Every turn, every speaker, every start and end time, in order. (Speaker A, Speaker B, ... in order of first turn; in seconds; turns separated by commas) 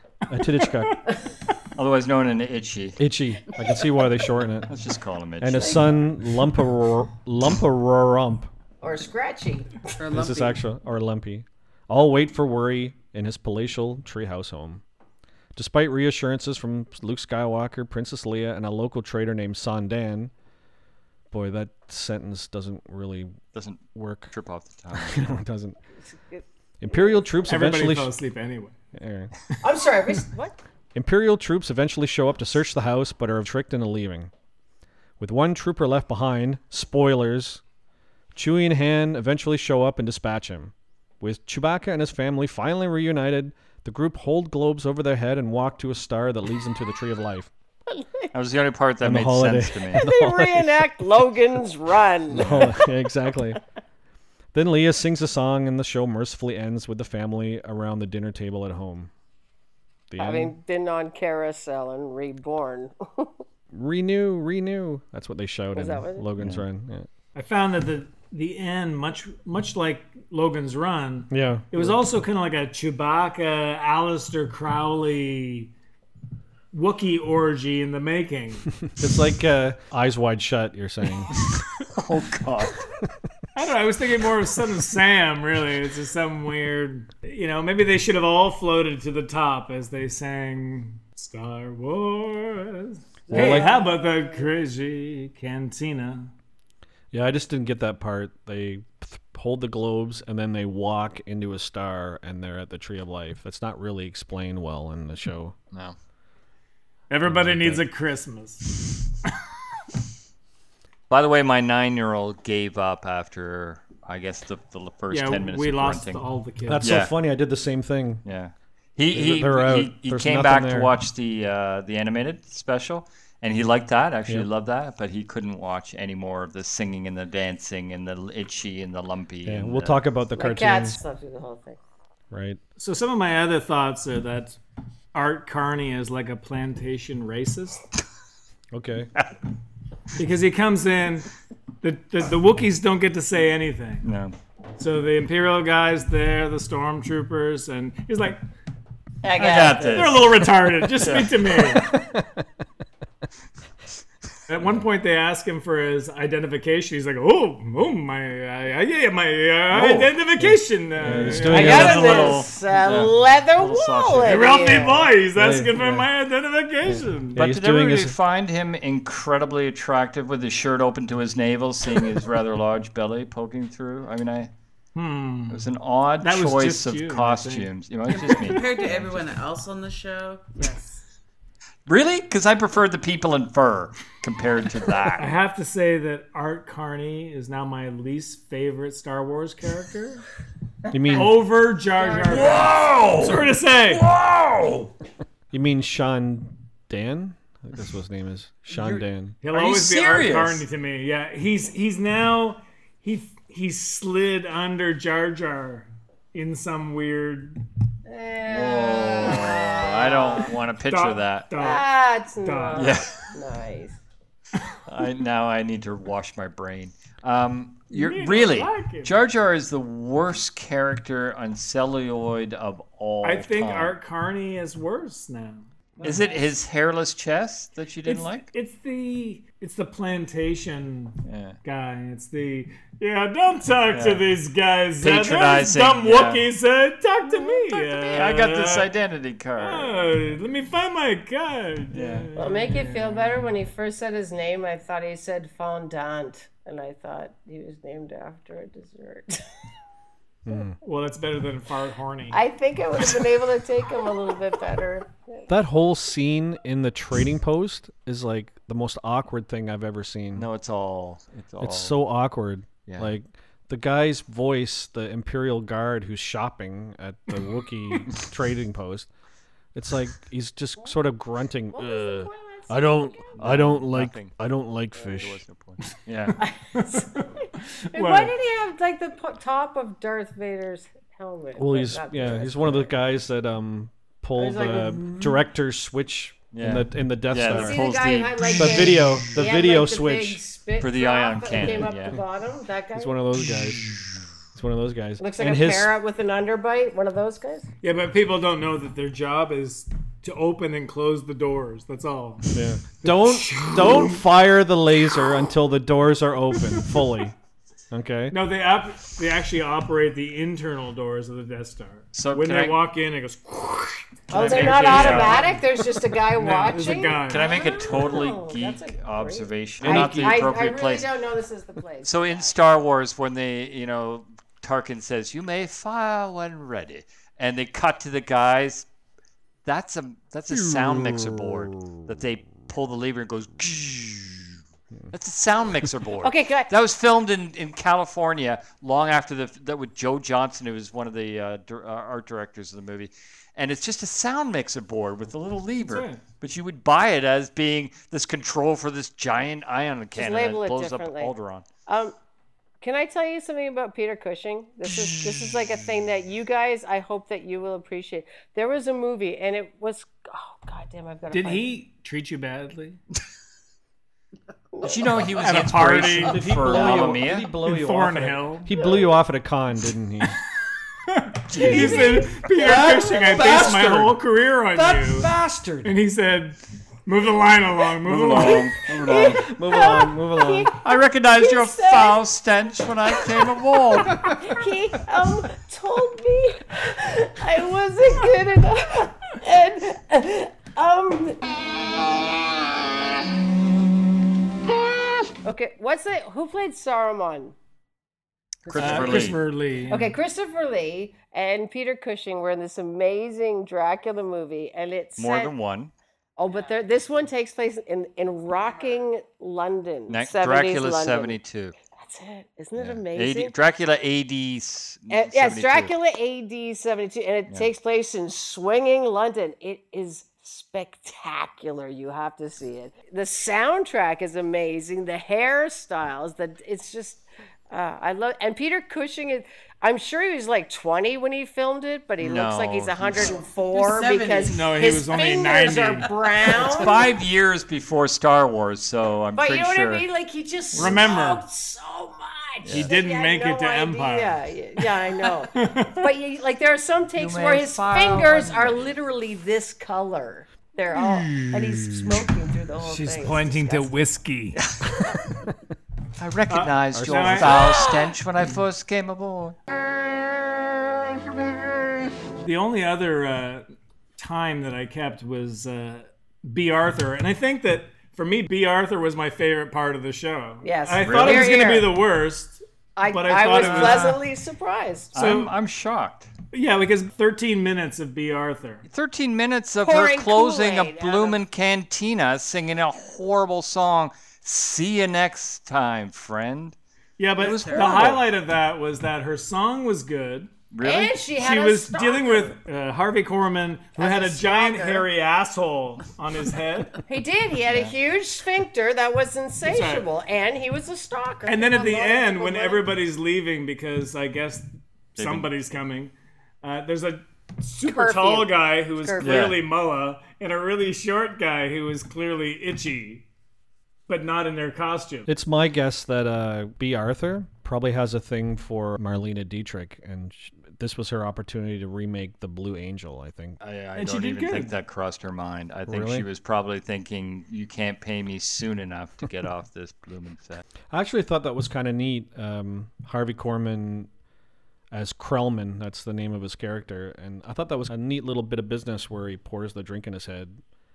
Speaker A: 0.3-1.0, Speaker B: 1.7-3.0, Speaker A: 3.0-4.7, Speaker B: 4.7-5.9, Speaker A: 5.4-8.5, Speaker C: 5.5-5.8, Speaker C: 8.8-9.8, Speaker D: 10.0-10.6, Speaker A: 10.1-14.8, Speaker A: 15.5-20.3, Speaker A: 21.3-23.4, Speaker B: 23.5-25.4, Speaker A: 23.9-24.3, Speaker A: 24.9-25.8, Speaker C: 26.1-27.4, Speaker A: 26.8-28.1, Speaker E: 27.5-28.7, Speaker A: 28.9-29.3, Speaker C: 29.6-30.6, Speaker A: 30.9-34.3, Speaker A: 35.2-37.6, Speaker A: 38.3-47.5, Speaker B: 48.3-50.1, Speaker A: 49.0-50.9, Speaker C: 50.0-52.9, Speaker A: 52.3-53.6, Speaker A: 54.5-59.1, Speaker A: 60.1-60.5, Speaker C: 60.2-63.3, Speaker A: 63.7-67.1, Speaker C: 65.7-66.2, Speaker B: 66.4-66.6, Speaker E: 67.3-75.7, Speaker A: 71.3-72.1, Speaker E: 76.7-78.8, Speaker A: 79.0-81.3, Speaker B: 81.4-82.9, Speaker E: 83.5-96.3, Speaker C: 93.3-93.9, Speaker A: 93.3-93.7, Speaker A: 97.1-105.5, Speaker E: 107.1-109.0, Speaker A: 107.2-107.8, Speaker B: 111.1-116.2, Speaker E: 115.1-117.0, Speaker A: 116.7-118.2, Speaker B: 116.8-117.1, Speaker B: 118.2-130.0, Speaker A: 119.1-120.9, Speaker A: 129.4-131.0, Speaker C: 130.4-131.8, Speaker A: 132.3-132.6, Speaker E: 132.8-134.6, Speaker E: 135.1-137.8, Speaker A: 138.7-139.1, Speaker E: 140.2-141.3, Speaker E: 141.8-144.1, Speaker B: 144.0-144.3, Speaker E: 144.8-148.4, Speaker B: 149.3-151.8, Speaker C: 149.4-149.8, Speaker E: 149.8-151.9, Speaker A: 151.9-152.4, Speaker E: 154.5-162.4, Speaker A: 160.4-162.0, Speaker B: 161.2-164.7, Speaker C: 161.5-165.1, Speaker E: 164.2-167.4, Speaker A: 165.3-166.1, Speaker A: 166.9-168.2, Speaker B: 167.3-174.5, Speaker E: 174.9-175.7, Speaker B: 175.5-179.2, Speaker E: 176.2-177.7, Speaker D: 178.1-180.7, Speaker E: 180.6-181.0, Speaker B: 181.9-185.3, Speaker E: 185.2-190.2, Speaker A: 190.9-191.4, Speaker E: 191.1-194.1, Speaker C: 192.0-192.7, Speaker B: 192.2-194.9, Speaker A: 195.5-199.3, Speaker B: 198.7-200.6, Speaker E: 199.4-207.6, Speaker C: 208.1-210.5, Speaker B: 208.4-211.8, Speaker E: 210.9-211.9, Speaker C: 211.6-214.0, Speaker E: 212.4-213.0, Speaker B: 212.7-213.1, Speaker B: 214.8-223.9, Speaker E: 217.9-219.2, Speaker E: 223.2-226.4, Speaker B: 226.0-228.5, Speaker E: 228.0-238.9, Speaker B: 231.2-231.6, Speaker B: 233.9-234.2, Speaker B: 235.0-236.5, Speaker C: 237.4-238.0, Speaker B: 238.1-240.1, Speaker E: 239.6-243.5, Speaker B: 241.9-242.3, Speaker C: 242.3-249.4, Speaker A: 250.4-250.8, Speaker E: 250.8-252.4, Speaker C: 252.3-255.5, Speaker A: 255.5-260.5, Speaker B: 260.3-262.0, Speaker A: 261.6-269.1, Speaker B: 262.9-263.1, Speaker A: 269.7-275.4, Speaker C: 271.7-273.4, Speaker B: 273.4-274.4, Speaker B: 275.0-276.4, Speaker C: 276.4-282.9, Speaker E: 276.7-278.3, Speaker A: 281.6-287.8, Speaker C: 284.4-285.4, Speaker B: 286.5-288.9, Speaker C: 287.4-293.2, Speaker A: 288.6-290.4, Speaker B: 290.8-292.2, Speaker A: 292.9-294.0, Speaker A: 294.5-295.9, Speaker C: 295.2-297.7, Speaker E: 297.8-304.2, Speaker A: 302.5-307.3, Speaker A: 307.9-308.4, Speaker E: 308.3-317.6, Speaker B: 312.1-312.8, Speaker C: 314.3-322.5, Speaker B: 314.3-315.5, Speaker B: 317.3-321.1, Speaker A: 319.8-320.6, Speaker B: 322.0-328.9, Speaker B: 329.6-334.6, Speaker A: 330.5-332.1, Speaker B: 335.1-351.6, Speaker C: 336.2-336.7, Speaker E: 345.8-346.2, Speaker C: 350.1-351.3, Speaker C: 351.9-352.1, Speaker C: 352.8-361.7, Speaker B: 355.0-355.5, Speaker E: 361.3-363.0, Speaker C: 364.7-365.0, Speaker B: 364.8-367.5, Speaker E: 365.4-368.7, Speaker A: 366.2-370.4, Speaker E: 371.1-375.3, Speaker B: 371.5-374.1, Speaker C: 371.6-373.8, Speaker C: 374.8-375.8, Speaker E: 375.8-378.7, Speaker B: 378.0-379.4, Speaker C: 378.4-382.2, Speaker A: 379.4-380.7, Speaker B: 380.8-384.4, Speaker C: 384.2-391.4, Speaker C: 395.4-397.5, Speaker B: 398.7-399.4, Speaker C: 398.7-399.3, Speaker E: 398.7-400.1, Speaker C: 399.9-405.5, Speaker B: 405.2-405.9, Speaker C: 406.4-411.4, Speaker B: 410.1-411.7, Speaker C: 411.9-413.5, Speaker B: 412.8-415.9, Speaker C: 415.1-437.0, Speaker B: 432.2-433.4, Speaker D: 433.2-435.4, Speaker E: 434.5-436.1, Speaker B: 436.6-440.1, Speaker C: 439.3-453.9, Speaker B: 440.7-441.1, Speaker E: 440.8-441.4, Speaker B: 442.6-442.9, Speaker E: 442.7-444.4, Speaker E: 445.5-446.1, Speaker B: 447.1-448.9, Speaker E: 450.9-452.2, Speaker E: 452.8-454.6, Speaker B: 454.6-454.9, Speaker B: 456.2-459.6, Speaker E: 456.5-457.8, Speaker A: 456.9-457.5, Speaker E: 462.4-463.6, Speaker E: 464.2-474.2, Speaker C: 470.6-471.9, Speaker B: 471.0-471.6, Speaker C: 472.9-475.1, Speaker B: 473.5-474.1, Speaker B: 475.1-476.3, Speaker E: 475.1-475.5, Speaker E: 476.5-478.8, Speaker B: 478.9-486.8, Speaker C: 479.8-481.4, Speaker E: 487.2-490.5, Speaker B: 487.4-488.2, Speaker D: 487.4-488.1, Speaker B: 490.7-491.2, Speaker C: 490.8-492.6, Speaker E: 491.3-497.0, Speaker C: 494.0-495.1, Speaker C: 497.1-502.9, Speaker B: 497.7-497.9, Speaker E: 499.6-500.1, Speaker E: 501.4-513.2, Speaker B: 505.1-505.5, Speaker C: 507.8-509.4, Speaker B: 509.2-509.6, Speaker E: 514.1-515.3, Speaker A: 515.3-523.6, Speaker B: 523.6-530.6, Speaker E: 524.0-524.7, Speaker A: 525.9-526.2, Speaker A: 530.9-534.1, Speaker A: 534.9-540.6